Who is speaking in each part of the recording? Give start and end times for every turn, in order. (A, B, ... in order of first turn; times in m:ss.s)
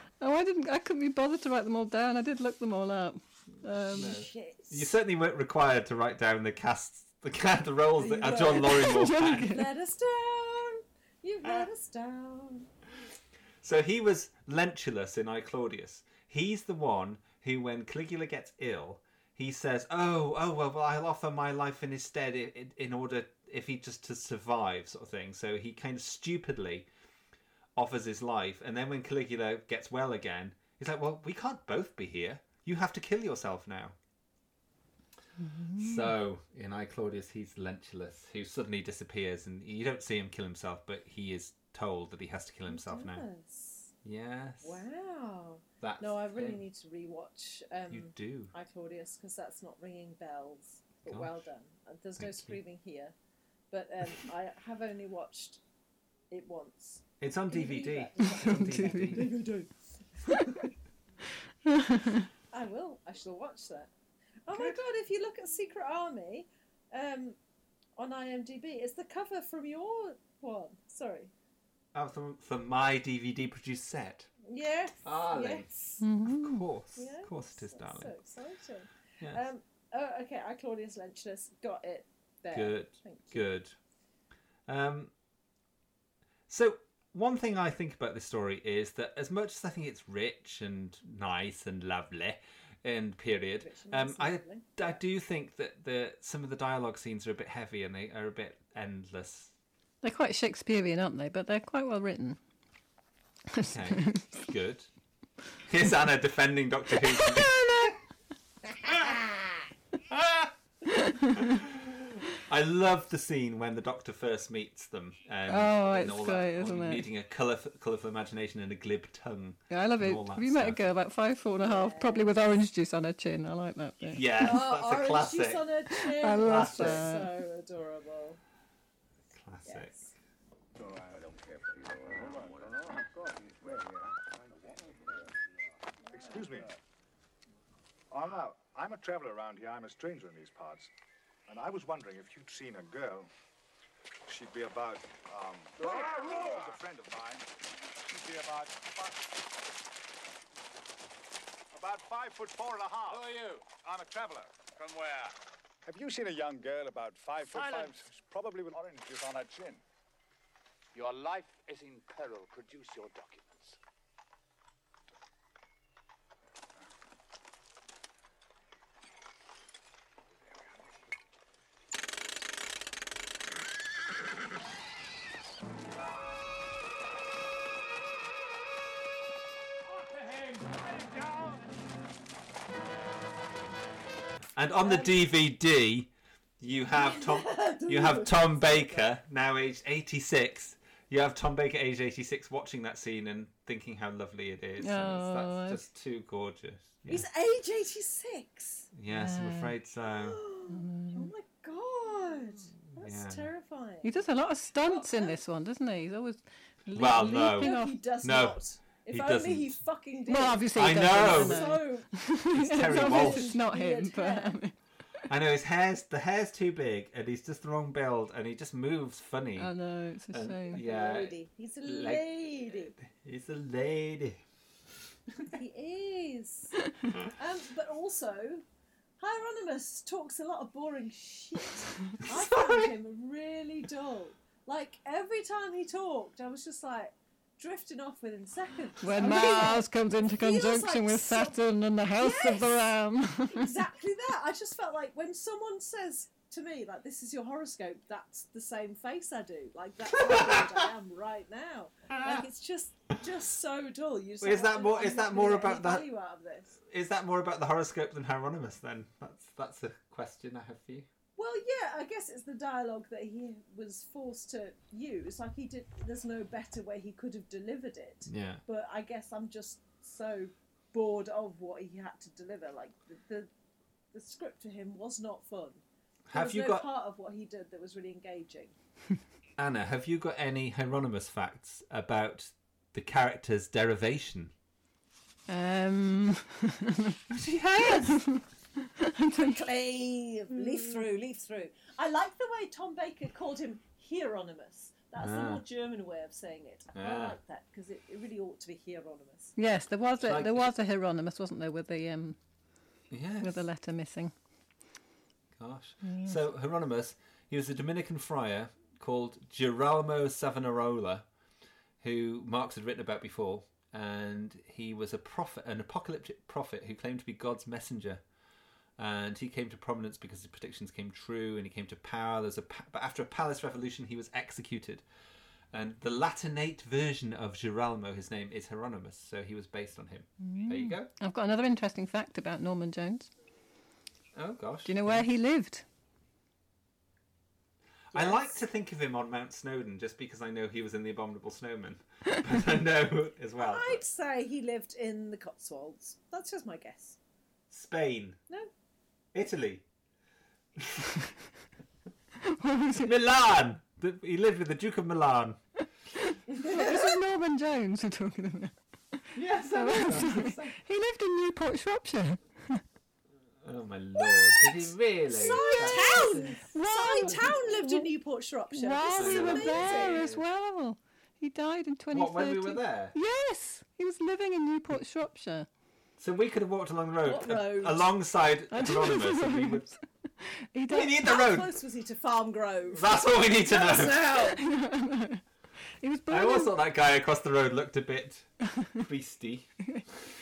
0:00.2-0:04.2 A
0:03.7-0:09.6 B
0:03.9-0:04.9 C
0:08.0-0:12.7 C
0:08.6-0:09.7 A
0:13.6-0:26.9 B
0:27.8-0:34.0 B
0:35.4-0:36.1 A
0:35.8-0:43.2 B
0:42.7-0:43.9 C
0:44.0-0:44.8 B
0:44.6-0:53.1 C
0:45.8-0:46.6 B
0:47.9-0:48.5 B
0:51.0-0:51.3 B
0:52.2-0:52.6 B
0:53.7-0:55.6 C
0:56.3-1:00.7 C
0:57.2-0:59.3 B
0:58.2-0:59.4 A
1:01.6-1:02.2 A
1:02.5-1:03.9 C
1:04.4-1:07.4 C
1:08.0-1:11.3 C
1:11.9-1:14.3 B
1:14.4-1:16.0 C
1:15.0-1:15.7 B
1:16.0-1:16.6 A
1:16.2-1:18.1 B
1:17.0-1:23.4 C
1:22.5-1:23.7 B
1:24.7-1:25.1 B
1:26.5-1:39.5 B
1:33.6-1:35.0 C
1:40.0-1:42.4 A
1:43.5-1:44.3 A
1:43.6-1:44.9 B
1:45.6-1:47.9 B
1:47.1-1:47.9 A
1:48.8-1:49.2 B
1:50.1-1:50.5 B
1:50.9-1:51.6 A
1:51.3-2:00.8 B
1:55.5-1:57.0 A
1:59.7-2:04.3 A
2:01.6-2:02.3 C
2:04.1-2:05.7 B
2:04.4-2:08.4 C
2:06.2-2:07.3 A
2:06.4-2:07.1 B
2:09.3-2:10.0 B
2:09.6-2:10.1 C
2:12.0-2:14.1 D
2:16.1-2:16.8 D
2:18.1-2:20.9 D
2:21.5-2:23.3 D
2:24.2-2:27.5 D
2:25.8-2:26.7 E
2:28.0-2:29.2 D
2:31.7-2:34.6 D
2:33.1-2:33.7 E
2:34.7-2:35.4 E
2:35.8-2:39.8 D
2:37.4-2:38.1 E
2:40.9-2:43.8 E
3:00.2-3:01.5 E
3:04.6-3:17.2 B
3:04.8-3:05.1 C
3:06.9-3:09.1 C
3:14.8-3:15.8 A
3:17.1-3:18.9 C
3:18.9-3:20.4 B
3:19.1-3:19.7 A
3:20.1-3:24.2 C
3:20.7-3:21.3 A
3:22.9-3:23.5 B
3:24.0-3:28.0 A
3:24.8-3:25.4 C
3:26.9-3:29.8 B
3:27.3-3:32.1 C
3:30.3-3:34.7 A
3:30.7-3:31.8 B
3:32.5-3:33.5 B
3:32.7-3:34.6 C
3:35.3-3:39.7 B
3:39.6-3:40.8 A
3:40.3-3:44.4 B
3:40.7-3:42.9 C
3:45.5-3:48.6 C
3:49.2-4:01.6 C
3:52.2-3:52.9 B
3:59.0-4:03.7 A
3:59.2-3:59.7 B
4:02.2-4:02.9 C
4:03.4-4:16.7 C
4:10.1-4:10.8 B
4:12.1-4:12.4 B
4:14.4-4:16.1 B
4:16.8-4:21.1 B
4:21.4-4:33.5 C
4:28.3-4:28.6 B
4:34.1-4:35.8 C
4:36.3-4:36.8 B
4:36.3-4:38.7 C
4:39.6-4:44.5 B
4:45.5-4:49.6 A
4:47.3-4:48.2 B
4:49.4-4:59.5 C
4:55.2-4:55.6 B
4:56.9-4:57.4 B
4:59.6-5:02.4 A
5:00.2-5:00.7 B
5:03.1-5:03.7 B
5:03.4-5:04.3 A
5:05.6-5:11.3 B
5:06.0-5:06.4 A
5:12.0-5:18.2 B
5:19.0-5:25.0 B
5:25.7-5:31.1 B
5:30.4-5:33.3 A
5:34.3-5:35.2 B
5:34.8-5:35.8 A
5:38.1-5:44.0 B
5:38.1-5:38.6 C
5:43.6-5:47.2 C
5:47.7-5:48.4 B
5:49.3-5:49.8 B
5:50.8-5:51.1 B
5:52.4-5:53.1 A
5:53.0-5:55.6 B
5:56.2-6:02.8 A
5:56.5-5:57.1 C
5:59.3-6:00.8 B
6:03.6-6:06.6 B
6:05.3-6:10.2 C
6:05.4-6:08.1 A
6:08.7-6:15.7 A
6:09.1-6:10.4 B
6:12.1-6:13.1 B
6:16.2-6:19.9 B
6:17.2-6:18.1 C
6:18.7-6:21.3 A
6:20.9-6:21.7 B
6:21.2-6:24.6 C
6:22.9-6:24.2 B
6:23.9-6:25.4 A
6:26.0-6:26.7 A
6:26.3-6:29.7 B